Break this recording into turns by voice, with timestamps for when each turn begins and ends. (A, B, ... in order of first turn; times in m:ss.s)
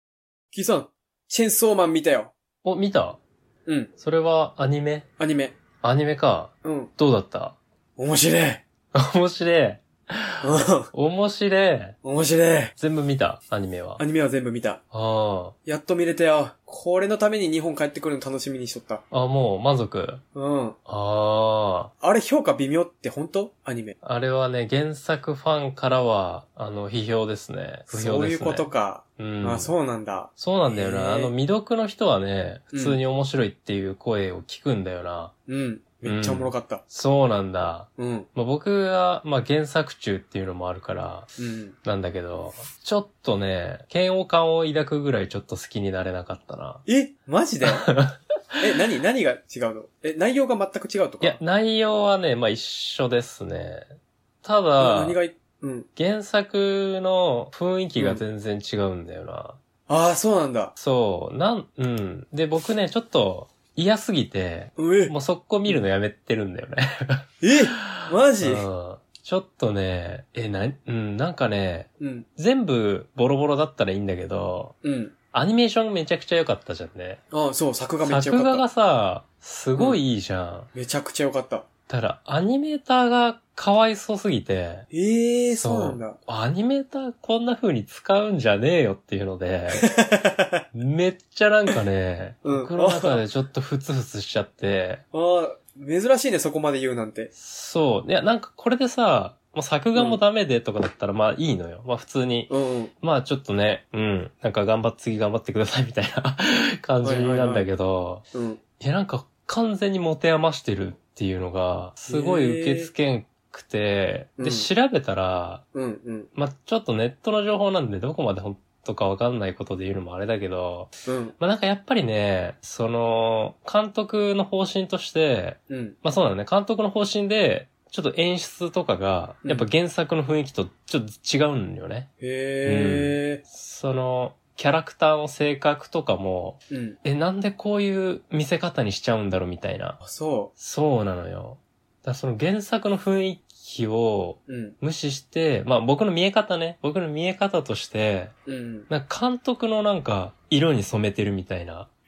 0:00.5-0:02.3 A
0:02.6-0:03.2 B
0:04.0-0:05.0 B
0:05.2-0:05.6 A
0:05.8-0:07.6 B
0:06.6-0:06.9 A
0:08.0-0:08.6 A
0:08.9-0:12.0 B
0:10.4-0:10.9 A
0:12.0-0:12.7 A
0:12.8-0:14.0 B
0:14.0-0:14.8 A
0:14.9-0:15.5 B
0:15.6-0:19.0 A
0:19.1-0:20.2 B
0:20.3-0:20.8 A
0:20.8-0:21.9 B
0:22.0-0:24.0 A
0:24.0-0:29.7 B
0:27.9-0:31.3 A
0:30.4-0:35.3 B
0:32.7-0:33.0 A
0:35.5-0:36.8 A
0:36.0-0:41.3 B
0:38.0-0:38.3 A
0:41.4-0:41.7 A
0:41.8-0:46.8 B
0:46.9-0:47.9 A
0:47.7-0:48.2 B
0:48.6-0:51.4 A
0:51.2-0:53.9 B
0:54.4-0:55.2 B
0:54.8-0:55.9 A
0:55.9-0:59.6 B
0:58.0-0:58.2 A
0:59.9-1:00.7 A
1:00.8-1:14.7 B
1:04.8-1:05.1 A
1:07.4-1:08.7 A
1:12.0-1:12.2 A
1:14.8-1:15.1 A
1:15.3-1:17.2 B
1:17.3-1:18.6 A
1:18.0-1:20.7 B
1:20.7-1:21.7 A
1:21.9-1:24.9 B
1:24.9-1:26.2 A
1:25.5-1:29.9 B
1:29.7-1:30.6 A
1:30.7-1:35.0 B
1:32.4-1:33.2 A
1:35.1-1:37.3 A
1:37.3-1:48.2 B
1:42.5-1:42.9 A
1:47.0-1:47.6 A
1:48.3-1:48.6 A
1:48.8-1:55.6 B
1:52.1-1:52.9 A
1:54.4-1:54.7 A
1:55.7-1:56.3 A
1:56.3-2:12.1 B
2:01.0-2:01.3 A
2:05.7-2:06.0 A
2:12.2-2:13.4 A
2:12.6-2:20.0 B
2:16.7-2:17.0 A
2:20.0-2:20.5 A
2:20.6-2:28.3 B
2:24.5-2:24.7 A
2:28.5-2:28.9 A
2:28.9-2:31.9 B